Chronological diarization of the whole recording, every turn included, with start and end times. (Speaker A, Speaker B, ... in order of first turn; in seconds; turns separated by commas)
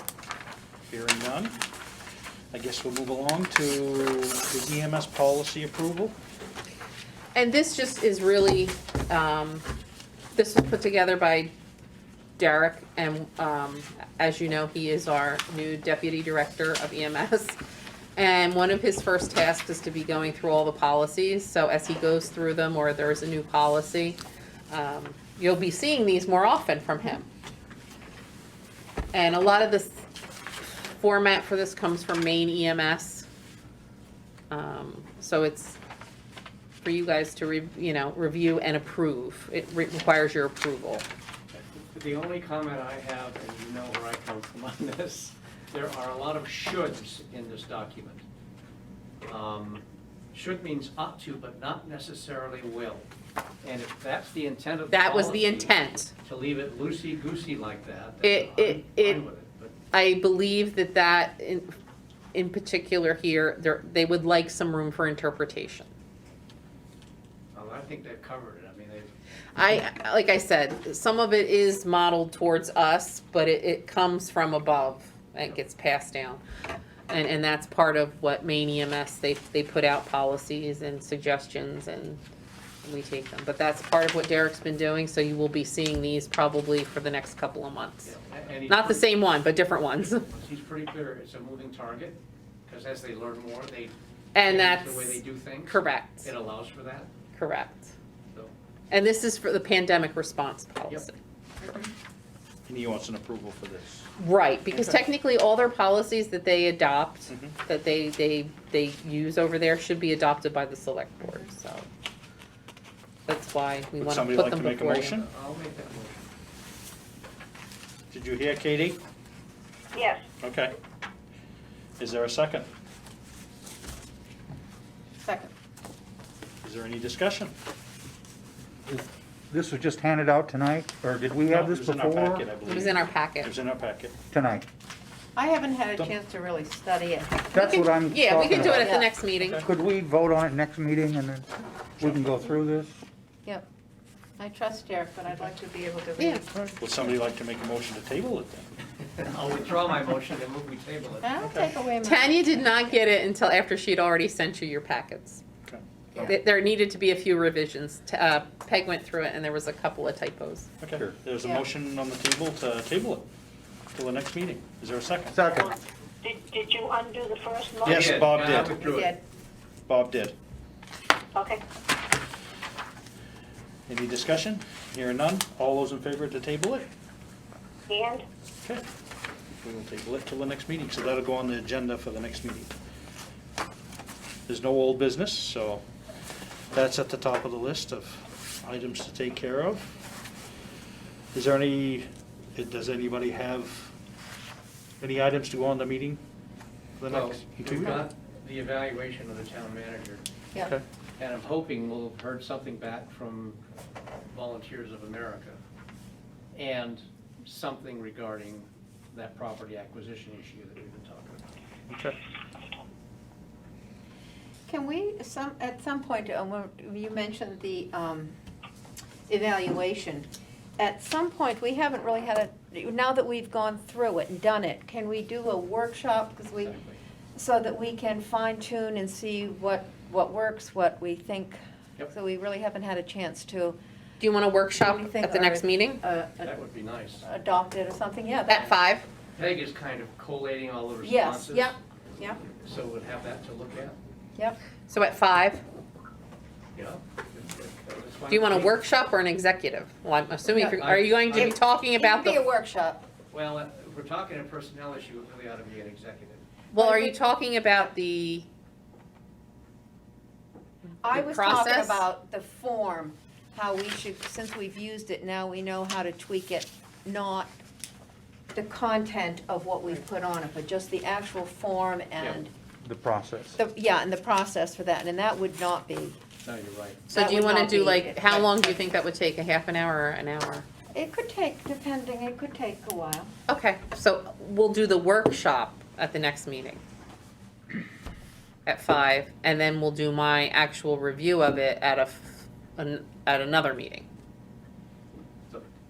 Speaker A: 0.9-1.6, Speaker A: 2.5-6.2, Speaker B: 7.3-9.6, Speaker B: 10.3-11.5, Speaker B: 12.4-17.6, Speaker B: 18.1-24.2, Speaker B: 24.7-27.3, Speaker B: 29.1-30.0, Speaker B: 30.6-33.2, Speaker B: 34.5-35.8, Speaker B: 36.8-41.0, Speaker C: 41.5-48.2, Speaker C: 49.2-53.1, Speaker C: 53.6-59.7, Speaker B: 54.9-56.1, Speaker B: 58.2-59.2, Speaker B: 59.9-61.7, Speaker B: 62.3-65.9, Speaker C: 67.5-69.1, Speaker B: 69.5-76.4, Speaker B: 77.1-82.2, Speaker B: 82.8-88.1, Speaker C: 88.0-89.1, Speaker B: 88.7-90.2, Speaker C: 90.0-93.9, Speaker B: 94.3-96.3, Speaker C: 94.4-97.1, Speaker B: 97.3-97.9, Speaker B: 98.9-101.2, Speaker D: 101.6-101.9, Speaker A: 102.7-104.1, Speaker B: 104.2-111.9, Speaker A: 104.7-105.0, Speaker A: 107.3-107.5, Speaker B: 113.3-115.2, Speaker A: 114.0-115.2, Speaker C: 115.0-116.2, Speaker A: 118.1-119.0, Speaker E: 119.9-120.2, Speaker A: 120.4-120.8, Speaker A: 122.0-122.7, Speaker D: 125.2-125.5, Speaker A: 126.6-127.5, Speaker F: 128.9-132.4, Speaker A: 131.4-134.2, Speaker B: 132.6-133.5, Speaker F: 134.3-134.6, Speaker D: 135.3-137.5, Speaker F: 137.5-138.9, Speaker B: 137.5-139.6, Speaker D: 138.7-139.1, Speaker A: 139.4-139.7, Speaker F: 139.6-143.0, Speaker A: 142.0-142.4, Speaker D: 144.4-146.5, Speaker B: 146.2-146.4, Speaker A: 146.8-148.7, Speaker C: 149.0-151.5, Speaker D: 151.2-152.8, Speaker B: 152.0-155.4, Speaker A: 155.7-156.3, Speaker B: 156.2-160.7, Speaker A: 160.8-163.3, Speaker A: 163.9-165.4, Speaker F: 165.3-165.7, Speaker E: 166.2-168.0, Speaker A: 167.8-168.8, Speaker C: 167.8-169.2, Speaker D: 168.8-169.2, Speaker A: 169.9-170.3, Speaker E: 171.3-171.6, Speaker A: 173.9-176.9, Speaker E: 177.9-178.2, Speaker A: 179.6-182.7, Speaker A: 184.5-185.8, Speaker A: 186.7-190.0, Speaker A: 191.3-193.9, Speaker A: 195.0-196.2, Speaker A: 197.0-198.1, Speaker C: 197.1-200.2, Speaker C: 201.2-203.6, Speaker C: 204.3-205.6, Speaker C: 206.5-211.4, Speaker A: 211.9-212.2, Speaker D: 214.7-218.3, Speaker D: 219.3-226.8, Speaker C: 226.6-227.0, Speaker D: 227.3-233.8, Speaker B: 234.2-236.0, Speaker D: 234.8-236.5, Speaker C: 236.4-237.2, Speaker D: 237.2-238.7, Speaker B: 238.5-239.1, Speaker C: 239.3-241.7, Speaker D: 241.0-242.4, Speaker C: 242.6-243.9, Speaker B: 244.9-245.6, Speaker C: 246.7-248.8, Speaker B: 248.3-252.4, Speaker C: 250.5-251.6, Speaker D: 251.3-253.1, Speaker C: 253.3-256.4, Speaker B: 256.7-258.5, Speaker D: 256.8-257.2, Speaker D: 261.0-267.5, Speaker B: 261.1-262.0, Speaker D: 268.5-272.5, Speaker C: 272.2-272.4, Speaker F: 272.8-273.6, Speaker D: 273.5-276.2, Speaker C: 276.4-277.1, Speaker B: 277.1-280.6, Speaker D: 277.1-278.9, Speaker D: 280.9-283.3, Speaker B: 283.5-286.8, Speaker B: 288.6-294.1